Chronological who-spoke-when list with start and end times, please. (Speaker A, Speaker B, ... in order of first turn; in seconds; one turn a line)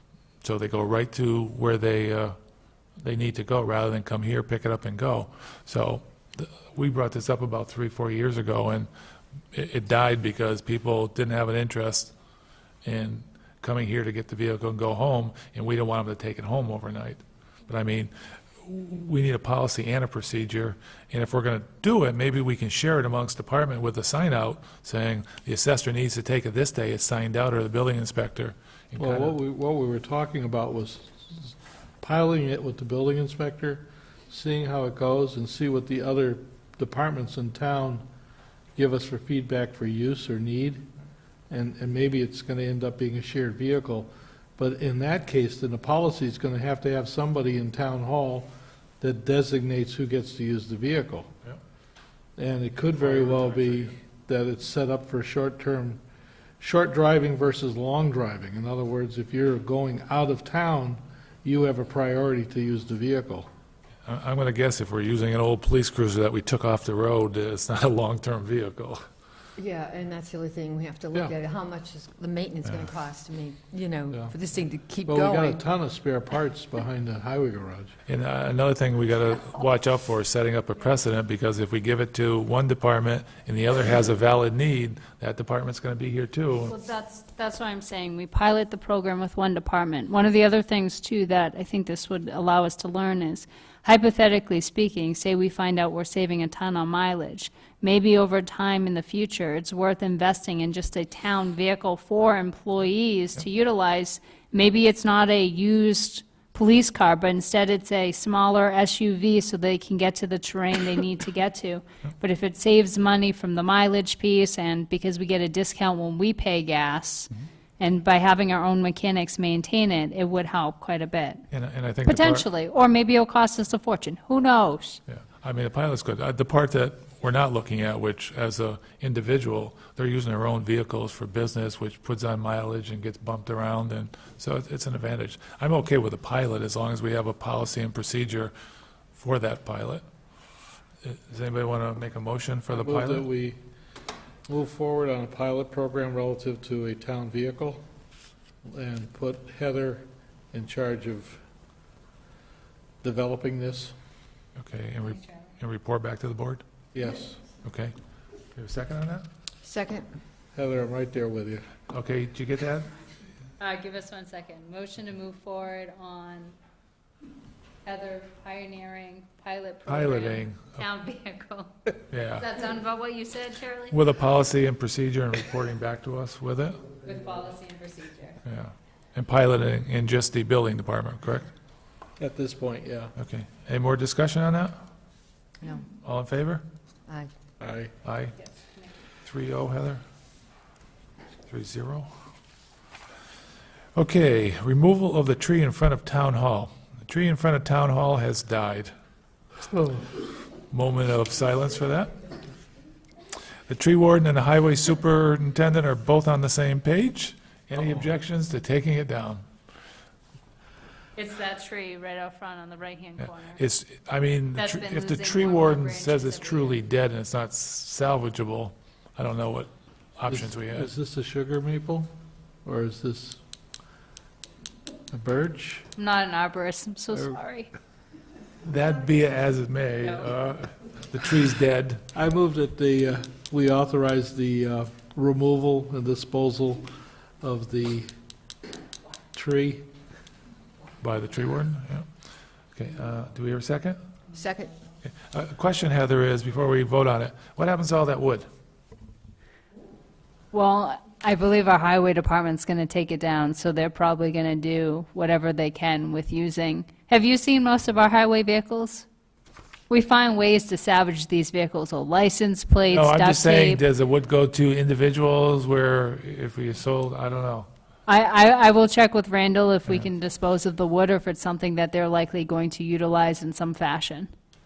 Speaker A: 0.4-2.4
Speaker A: 3.0-8.9
Speaker A: 9.5-12.1
Speaker A: 12.8-29.3
Speaker B: 29.0-38.0
Speaker B: 38.8-40.8
Speaker B: 41.5-48.5
Speaker B: 49.0-51.3
Speaker B: 52.4-56.0
Speaker A: 53.1-53.9
Speaker B: 56.6-63.5
Speaker A: 64.0-69.0
Speaker C: 69.6-75.6
Speaker B: 75.0-77.9
Speaker A: 78.1-86.7
Speaker D: 86.7-121.4
Speaker A: 121.5-122.5
Speaker D: 122.0-125.0
Speaker A: 125.1-138.5
Speaker A: 139.1-140.0
Speaker A: 141.0-143.2
Speaker B: 142.7-143.6
Speaker B: 144.5-147.8
Speaker B: 148.6-151.4
Speaker B: 153.0-153.9
Speaker A: 154.6-156.6
Speaker D: 155.1-155.5
Speaker B: 156.9-157.4
Speaker A: 157.6-157.9
Speaker A: 158.5-159.2
Speaker C: 159.6-160.1
Speaker B: 160.5-161.7
Speaker A: 161.9-162.9
Speaker D: 163.6-166.6
Speaker D: 167.8-174.0
Speaker A: 169.9-170.8
Speaker A: 172.1-172.5
Speaker A: 173.9-176.8
Speaker D: 177.0-178.4
Speaker A: 178.4-181.5
Speaker B: 182.2-183.1
Speaker A: 183.2-184.8
Speaker A: 186.0-186.6
Speaker B: 187.6-187.9
Speaker A: 188.0-188.3
Speaker D: 188.4-188.9
Speaker A: 189.2-190.0
Speaker A: 191.5-192.1
Speaker A: 193.9-198.9
Speaker A: 200.7-202.1
Speaker A: 203.7-209.4
Speaker D: 211.2-213.6
Speaker A: 213.2-220.9
Speaker D: 214.6-216.8
Speaker B: 220.3-222.1
Speaker B: 222.6-223.4
Speaker B: 225.1-225.9
Speaker D: 225.9-227.7
Speaker A: 228.6-232.0
Speaker B: 232.1-236.8
Speaker B: 237.4-238.1
Speaker B: 239.3-239.9
Speaker A: 241.0-242.1
Speaker A: 242.7-244.0
Speaker C: 244.3-244.7
Speaker A: 245.3-248.5
Speaker D: 250.5-259.1
Speaker D: 259.9-263.8
Speaker A: 262.9-267.7
Speaker D: 268.1-274.3